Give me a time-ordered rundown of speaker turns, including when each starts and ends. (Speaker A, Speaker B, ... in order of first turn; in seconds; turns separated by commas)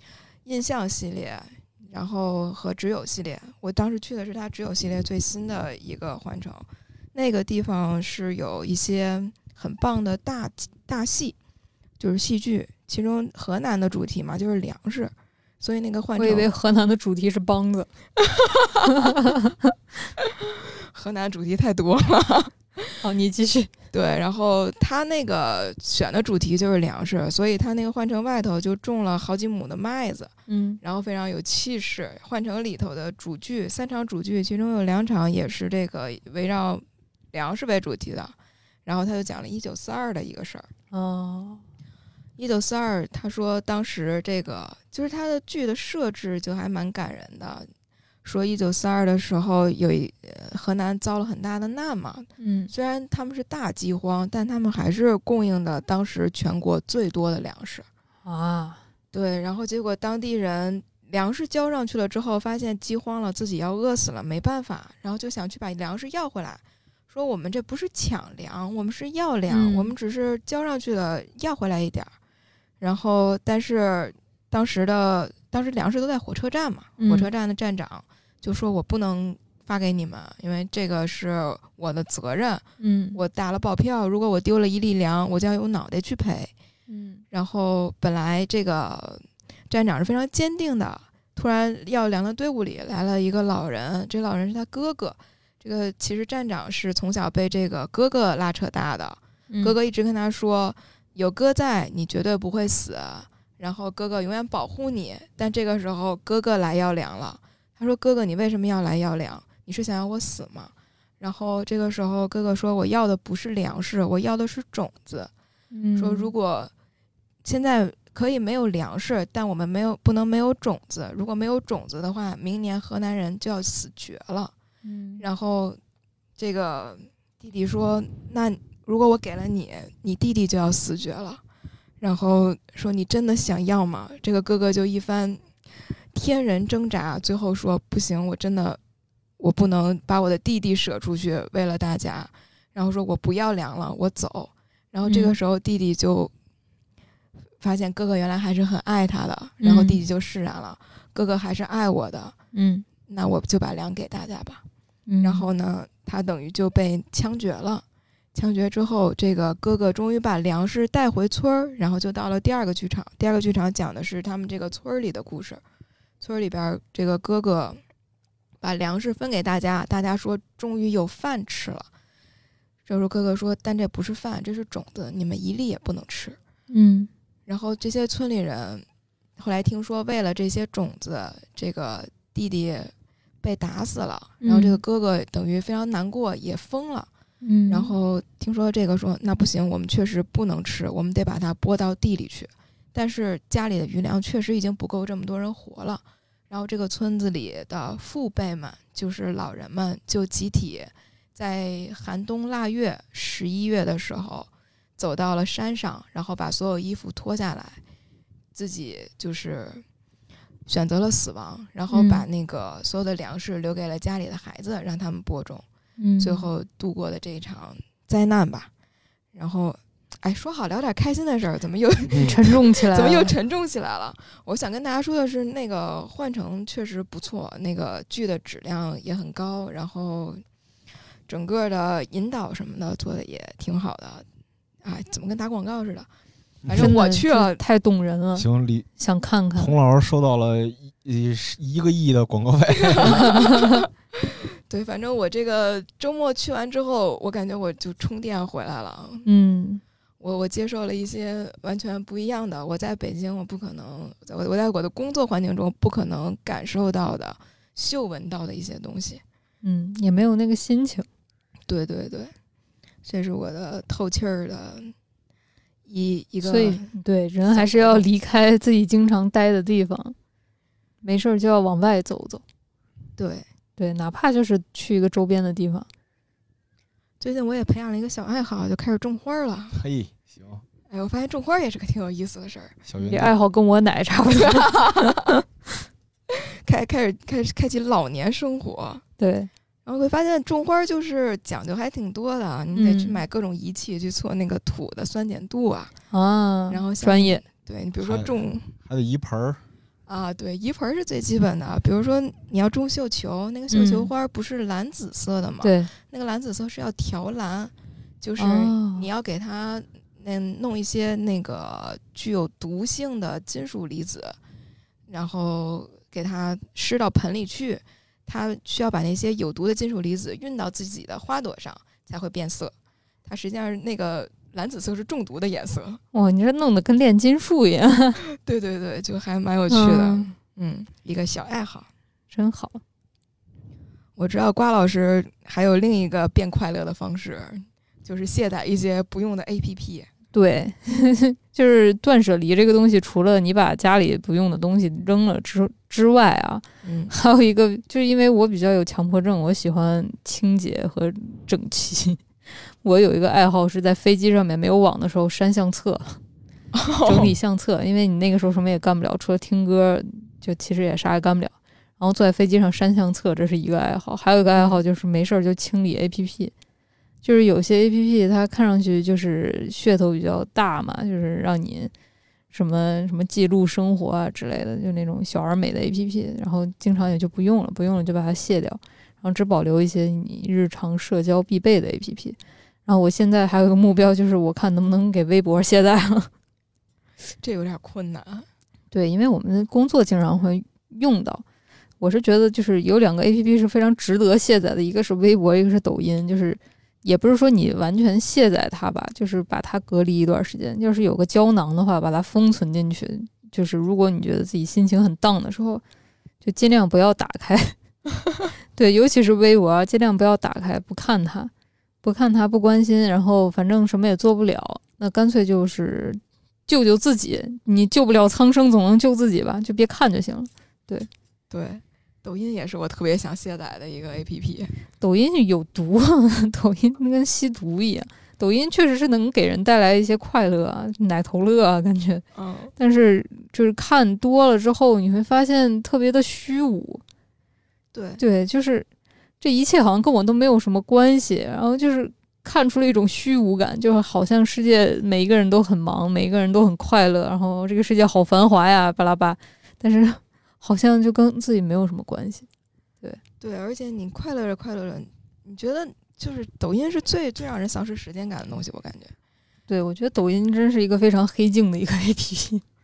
Speaker A: 0.4-11.3, Speaker A: 12.0-16.5, Speaker B: 16.1-17.9, Speaker A: 18.3-18.8, Speaker B: 18.9-19.5, Speaker A: 20.5-23.0, Speaker B: 23.0-23.7, Speaker A: 23.9-40.7, Speaker B: 30.5-30.8, Speaker B: 40.9-41.6, Speaker A: 42.4-47.7, Speaker A: 48.2-57.9, Speaker B: 52.4-52.7, Speaker B: 58.2-58.8, Speaker A: 59.1-72.1, Speaker B: 69.5-69.9, Speaker A: 72.8-86.5, Speaker B: 77.0-77.3, Speaker B: 82.8-83.2, Speaker B: 86.9-87.2, Speaker A: 87.3-115.3, Speaker B: 115.7-116.3, Speaker A: 116.0-116.7, Speaker A: 117.4-124.5, Speaker B: 124.8-125.2, Speaker A: 125.2-125.8, Speaker A: 126.4-131.4, Speaker A: 132.0-138.8, Speaker A: 139.4-146.3, Speaker B: 145.0-145.3, Speaker A: 147.6-152.3, Speaker B: 149.6-150.0, Speaker B: 152.5-152.8, Speaker A: 153.1-154.6, Speaker B: 155.1-155.5, Speaker A: 155.2-157.8, Speaker A: 158.3-165.6, Speaker A: 166.2-167.8, Speaker A: 168.6-171.9, Speaker A: 172.8-176.4, Speaker B: 176.7-177.1, Speaker A: 177.5-178.8, Speaker A: 179.4-187.1, Speaker B: 184.4-184.8, Speaker B: 187.4-187.9, Speaker A: 187.7-207.8, Speaker A: 208.5-209.8, Speaker A: 210.7-215.6, Speaker B: 211.9-212.2, Speaker B: 216.0-216.5, Speaker A: 216.2-218.7, Speaker A: 219.3-230.4, Speaker B: 222.2-223.3, Speaker A: 231.3-234.2, Speaker A: 234.8-236.1, Speaker A: 236.6-237.6, Speaker B: 236.8-238.4, Speaker C: 238.3-238.9, Speaker B: 239.0-239.7, Speaker C: 239.6-243.4, Speaker A: 242.8-249.3, Speaker B: 243.0-243.8, Speaker B: 249.2-249.8, Speaker A: 250.2-259.2, Speaker B: 259.6-261.1, Speaker A: 261.7-262.3, Speaker A: 263.0-264.9, Speaker A: 265.9-266.9, Speaker B: 266.4-270.1, Speaker A: 267.5-268.0, Speaker B: 271.0-272.4, Speaker A: 273.2-273.4, Speaker B: 273.8-275.9, Speaker A: 277.2-279.8, Speaker C: 279.7-280.6, Speaker A: 280.9-283.1, Speaker C: 282.9-283.3, Speaker B: 283.1-285.3, Speaker A: 284.5-285.3, Speaker A: 286.3-289.0, Speaker B: 289.2-289.5, Speaker A: 289.9-295.9, Speaker B: 292.8-293.2, Speaker B: 296.1-297.4, Speaker A: 296.7-298.7, Speaker C: 298.0-299.6, Speaker A: 300.1-314.4, Speaker B: 303.7-304.1, Speaker B: 305.6-305.9, Speaker B: 308.4-309.1, Speaker A: 315.1-322.7, Speaker A: 323.2-326.0, Speaker B: 326.1-328.2, Speaker A: 328.4-331.9, Speaker B: 329.7-330.3, Speaker B: 332.3-332.8, Speaker A: 334.1-340.1, Speaker B: 340.3-356.2, Speaker A: 346.8-347.1, Speaker A: 356.7-357.3, Speaker B: 357.0-366.5, Speaker B: 367.2-371.9, Speaker B: 372.5-386.3, Speaker A: 387.4-388.5, Speaker B: 388.9-391.4, Speaker B: 392.0-405.8, Speaker B: 406.4-407.8, Speaker B: 408.8-411.5, Speaker B: 412.0-421.1, Speaker A: 421.5-424.7, Speaker B: 425.0-432.2, Speaker A: 432.3-432.7, Speaker B: 432.8-437.0, Speaker A: 437.9-438.2, Speaker B: 438.2-438.9, Speaker B: 439.4-452.5, Speaker A: 453.4-459.1, Speaker B: 459.7-462.6